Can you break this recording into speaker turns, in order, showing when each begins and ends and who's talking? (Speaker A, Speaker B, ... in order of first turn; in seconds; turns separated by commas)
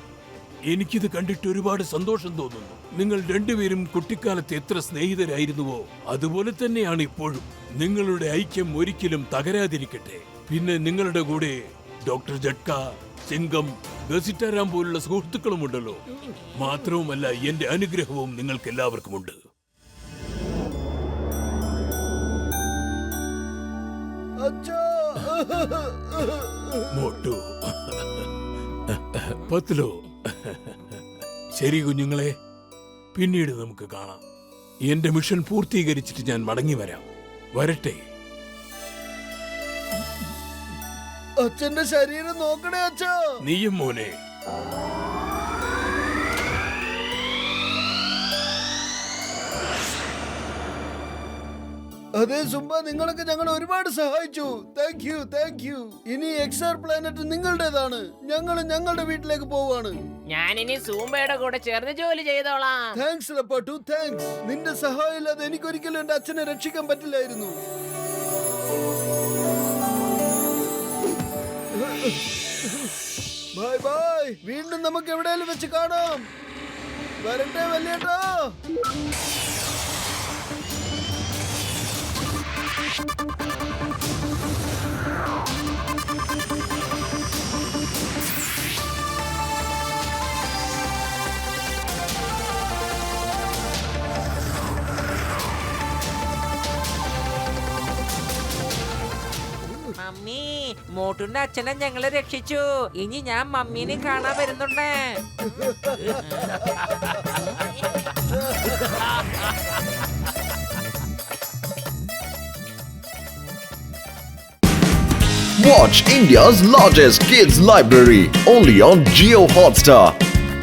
Speaker A: 0.7-16.0, Speaker A: 16.6-19.4, Speaker B: 24.4-27.1, Speaker A: 26.9-28.3, Speaker A: 28.9-31.0, Speaker A: 31.6-32.3, Speaker A: 33.1-34.2, Speaker A: 34.9-37.0, Speaker A: 37.5-38.0, Speaker B: 41.4-43.1, Speaker A: 43.4-44.1, Speaker B: 52.2-60.0, Speaker C: 60.3-62.9, Speaker B: 62.9-67.5, Speaker B: 71.8-72.9, Speaker B: 73.5-76.2, Speaker B: 77.2-78.4, Speaker D: 100.0-105.2, Speaker B: 105.5-106.2, Speaker E: 115.6-120.1